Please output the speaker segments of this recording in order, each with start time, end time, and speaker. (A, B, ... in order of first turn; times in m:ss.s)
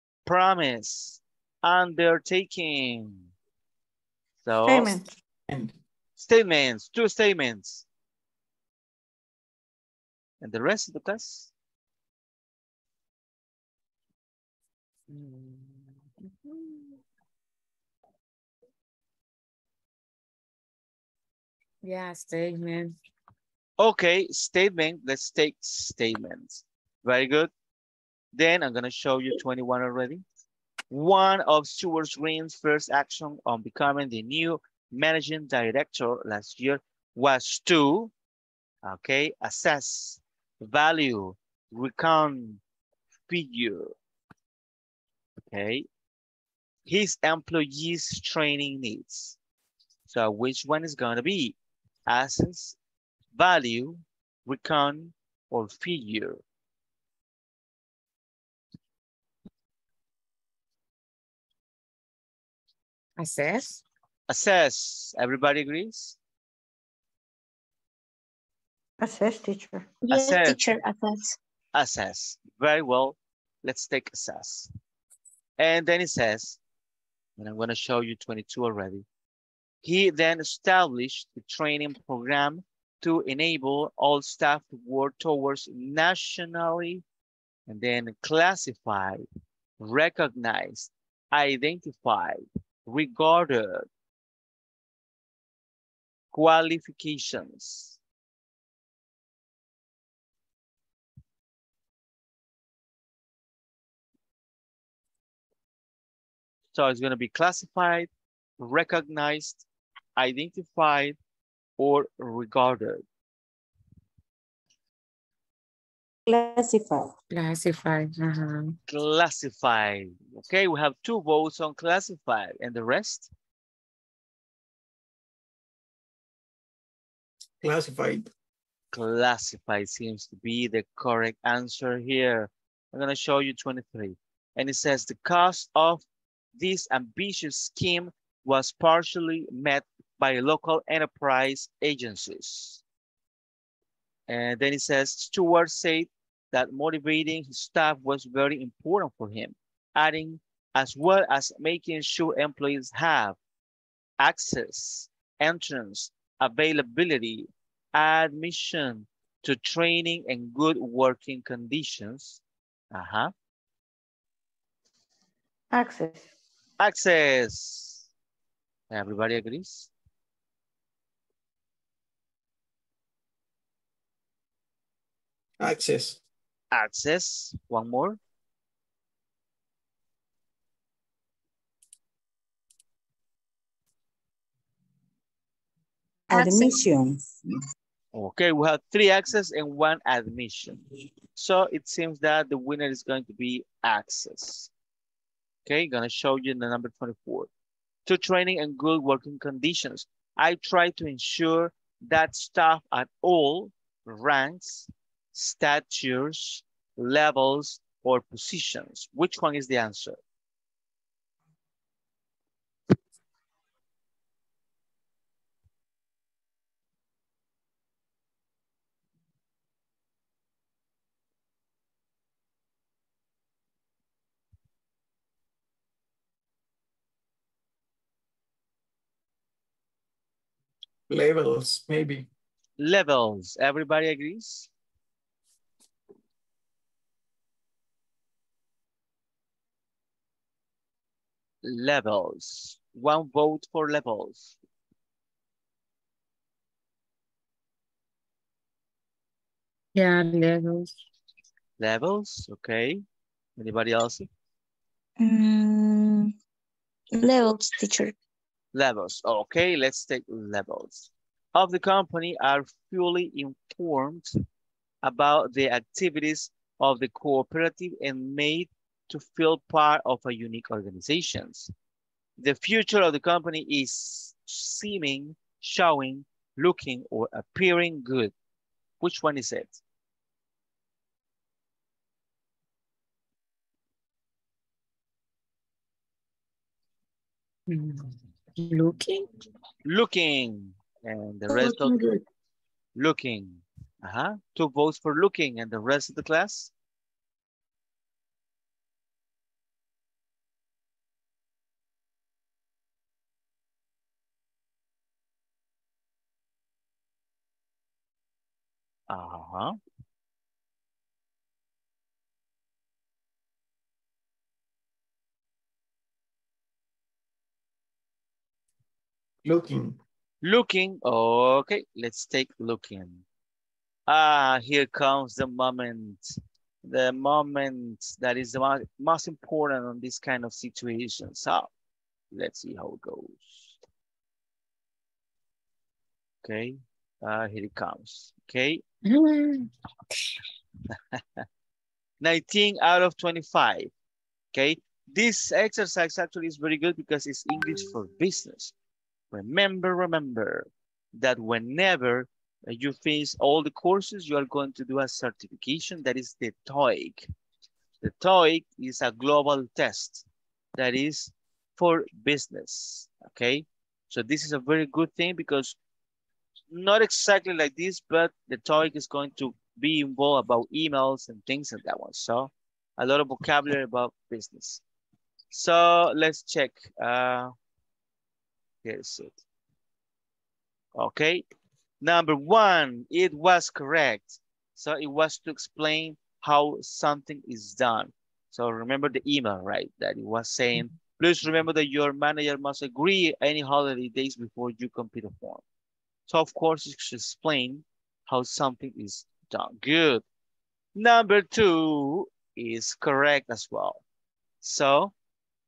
0:00.2-0:03.3 A
0:04.4-0:05.0 A
0:04.6-0:05.1 B
0:05.5-0:05.7 C
0:06.2-0:07.8 A
0:10.4-0:11.5 A
0:15.1-0:17.0 D
0:21.8-0:22.9 D
0:23.8-0:27.5 A
0:28.3-0:30.2 A
0:30.9-0:38.1 A
0:38.8-0:42.6 A
0:43.3-0:43.9 A
0:45.4-0:45.9 A
0:46.8-0:49.4 A
0:50.1-0:51.6 A
0:52.1-0:52.8 A
0:53.3-0:56.4 A
1:03.2-1:03.8 D
1:04.3-1:06.2 A
1:09.0-1:09.9 B
1:10.1-1:11.4 E
1:10.1-1:10.6 A
1:11.7-1:14.7 A
1:15.6-1:16.6 A
1:17.4-1:19.0 A
1:19.8-1:27.0 A
1:27.7-1:29.2 A
1:29.8-1:33.9 A
1:36.3-1:38.0 A
1:46.7-1:49.6 A
1:50.2-1:51.2 A
1:51.8-1:53.0 A
1:56.3-1:57.1 B
1:57.3-1:58.8 D
1:58.9-2:03.3 A
2:07.6-2:08.2 C
2:08.9-2:16.0 A
2:16.6-2:22.8 A
2:24.3-2:33.4 A
2:34.2-2:43.3 A
2:45.7-2:46.3 B
2:46.8-2:48.1 A
2:48.9-2:49.9 A
2:55.6-2:56.2 C
2:56.7-2:58.2 A
3:06.3-3:07.2 B
3:08.1-3:10.8 A
3:11.4-3:14.7 A
3:15.6-3:17.5 A
3:18.0-3:30.2 A
3:51.1-3:52.3 C
3:52.8-3:54.7 A
4:01.6-4:04.6 A
4:09.9-4:10.9 D
4:11.8-4:13.0 A
4:13.6-4:14.3 A
4:15.2-4:16.3 E
4:17.1-4:18.1 E
4:18.7-4:24.3 A
4:25.0-4:31.7 A
4:32.4-4:38.3 A
4:39.0-4:39.8 A
4:47.7-4:49.2 D
4:49.8-4:52.1 A
4:51.6-4:52.0 D
4:53.0-4:56.7 A
5:09.1-5:09.8 A
5:19.4-5:20.0 C
5:20.4-5:23.2 A
5:24.1-5:26.3 A
5:26.8-5:31.7 A
5:32.3-5:33.8 A
5:36.4-5:38.8 A
5:39.0-5:40.3 D
5:40.9-5:41.4 A
5:42.2-5:43.9 A
5:44.5-5:48.7 A
5:49.3-5:57.2 A
5:58.0-6:05.8 A
6:06.7-6:14.8 A
6:15.5-6:17.5 A
6:18.8-6:19.4 A
6:20.9-6:21.4 A
6:22.0-6:35.6 A
6:36.3-6:40.2 A
6:40.9-6:44.0 A
6:44.6-6:45.1 A